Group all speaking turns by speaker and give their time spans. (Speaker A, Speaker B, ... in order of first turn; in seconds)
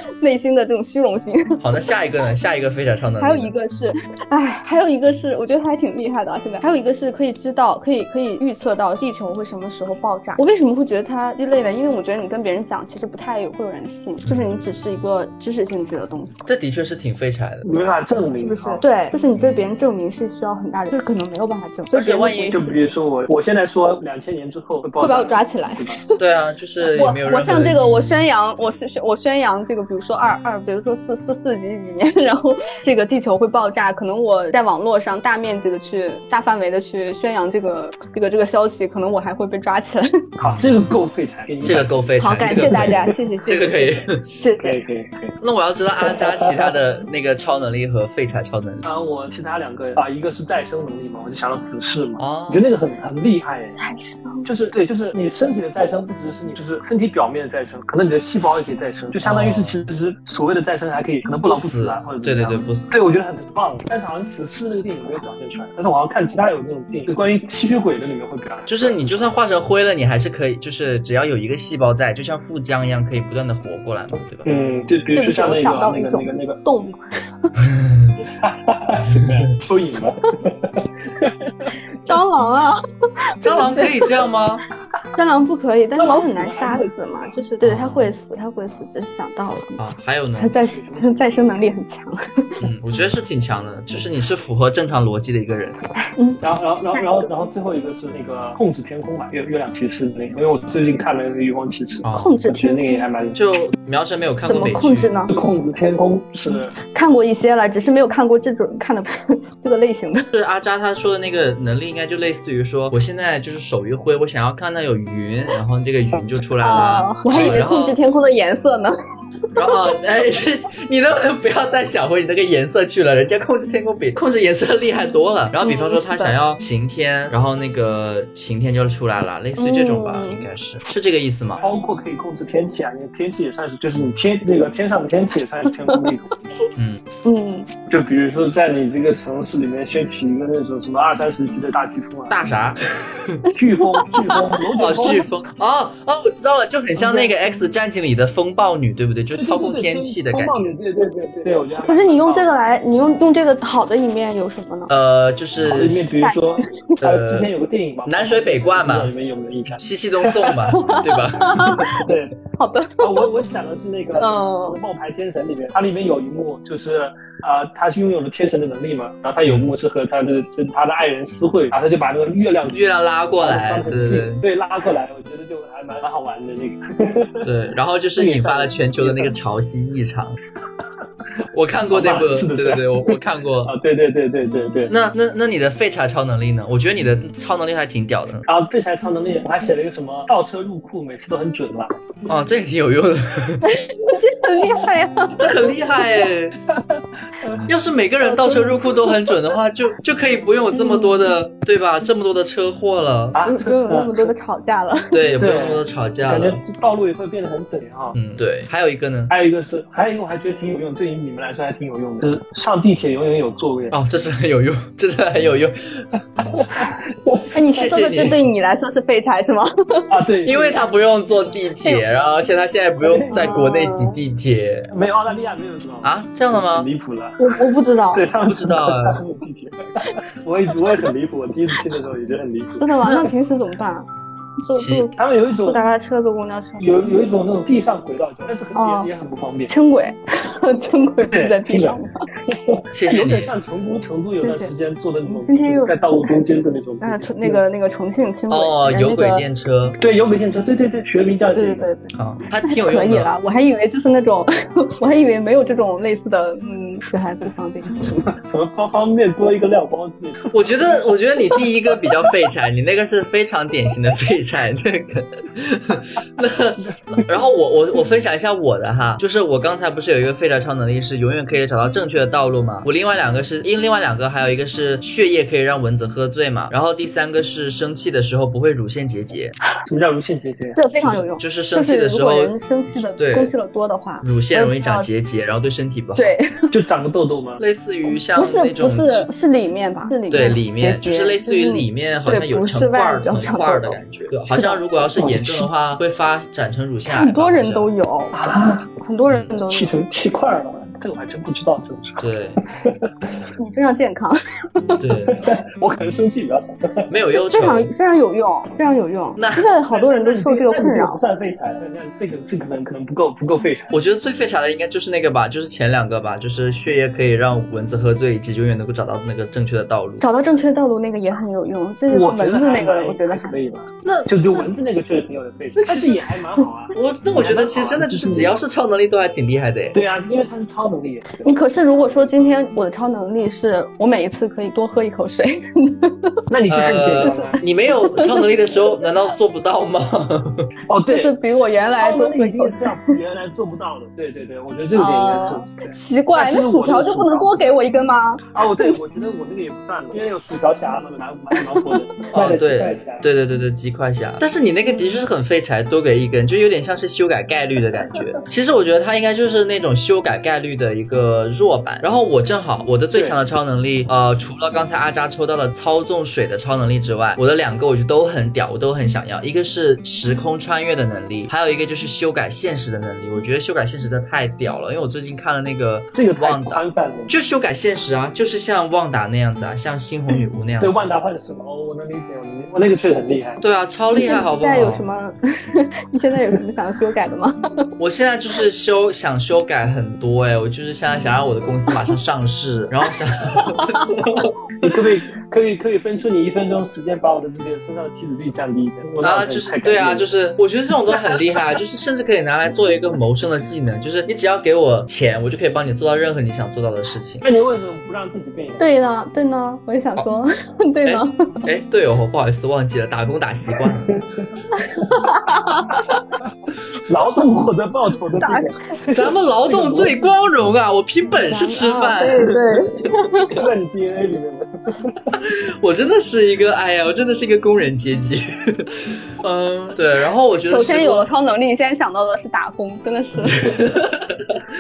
Speaker A: 0.2-1.6, 3.2-16.5, 18.4-22.8, 25.0-26.0, 26.8-40.1, 42.2-44.8, 53.8-54.5, 75.2-77.5, 82.0-82.8, 83.4-84.1, 85.2-89.8, 90.4-92.6, 96.1-97.1, 102.1-103.0, 104.5-105.3, 106.5-110.3, 116.6-119.0, 119.6-119.8, 125.6-126.4, 129.6-130.5, 137.2-137.7, 143.8-145.2, 147.0-147.3, 151.9-154.9, 156.2-156.9, 160.7-162.0, 162.6-163.3, 164.2-164.8, 193.6-196.3, 198.2-199.2, 200.7-201.3, 203.4-205.4, 217.5-220.1, 223.3-224.2, 227.4-228.3, 232.8-234.1, 234.6-235.2, 235.7-236.9, 238.8-239.1, 239.7-242.1, 244.4-244.7, 245.3-246.4, 247.0-249.5, 251.5-252.1, 252.6-258.0, 280.8-285.1, 286.2-286.7, 288.3-295.4, 297.1-298.4, 299.0-300.0, 303.6-305.0, 307.3-311.2, 320.2-323.6, 331.4-336.4, 337.2-337.6, 338.1-338.4, 341.1-343.2, 344.9-349.0, 351.6-351.9, 384.1-387.9, 393.6-394.4, 408.8-411.4, 414.7-416.2, 418.4-418.8, 421.4-423.6, 430.6-433.6
Speaker B: 1.6-3.5, 14.3-14.6, 16.5-17.7, 21.9-22.6, 26.2-28.2, 40.4-40.8, 41.6-44.3, 45.4-48.9, 52.2-52.6, 59.2-59.8, 61.5-62.9, 68.7-74.5, 77.7-78.2, 83.4-84.6, 87.6-88.1, 89.8-90.5, 92.6-95.8, 102.0-102.3, 103.4-105.1, 110.3-118.0, 119.5-131.6, 136.8-137.0, 142.3-143.4, 144.8-150.8, 154.9-156.1, 157.0-157.5, 158.1-159.1, 159.8-162.0, 169.4-169.7, 172.7-174.4, 177.4-180.4, 181.5-183.7, 184.9-188.4, 192.3-193.6, 195.4-196.6, 197.7-203.4, 205.1-206.6, 208.2-209.3, 213.9-216.2, 217.8-218.4, 220.4-224.9, 226.0-226.9, 228.5-229.2, 233.0-233.3, 234.7-235.1, 242.9-243.5, 248.5-250.0, 252.2-253.3, 260.5-279.6, 281.0-282.6, 283.2-283.5, 284.2-286.3, 287.6-289.3, 290.3-297.9, 302.2-302.6, 305.0-306.1, 307.1-307.9, 309.4-309.7, 313.9-320.2, 325.8-326.2, 326.9-330.0, 336.7-340.7, 352.3-381.1, 383.6-385.0, 388.0-394.5, 399.2-407.4, 411.1-414.2, 419.1-422.7, 425.4-431.3, 433.4-434.6
Speaker C: 17.6-18.8, 22.5-26.0, 40.4-41.9, 42.5-43.1, 44.6-45.4, 46.0-46.8, 48.9-53.8, 54.5-69.3, 74.5-76.6, 78.4-81.7, 86.0-87.3, 90.6-91.4, 96.4-103.4, 105.3-106.7, 131.6-136.3, 137.9-142.4, 143.5-145.2, 149.3-152.5, 155.7-160.7, 161.9-162.3, 163.0-172.8, 173.4-177.5, 178.2-179.3, 181.9-184.9, 188.5-191.9, 196.8-197.6, 203.3-204.3, 205.4-208.2, 209.3-214.0, 216.5-217.5, 220.1-220.9, 223.0-223.6, 224.9-227.4, 228.1-232.9, 235.2-235.8, 236.8-239.7, 241.2-247.6, 250.0-251.8, 257.9-260.6, 266.9-267.2, 279.9-280.8, 286.7-287.6, 298.3-298.9, 299.6-303.3, 305.3-307.1, 309.9-313.9, 322.1-328.6, 329.9-331.6, 336.5-337.6, 340.9-341.4, 341.9-347.8, 348.5-353.2, 376.1-377.3, 380.8-383.6, 394.8-400.3, 407.4-408.9, 413.8-414.4, 417.1-420.3, 423.5-425.4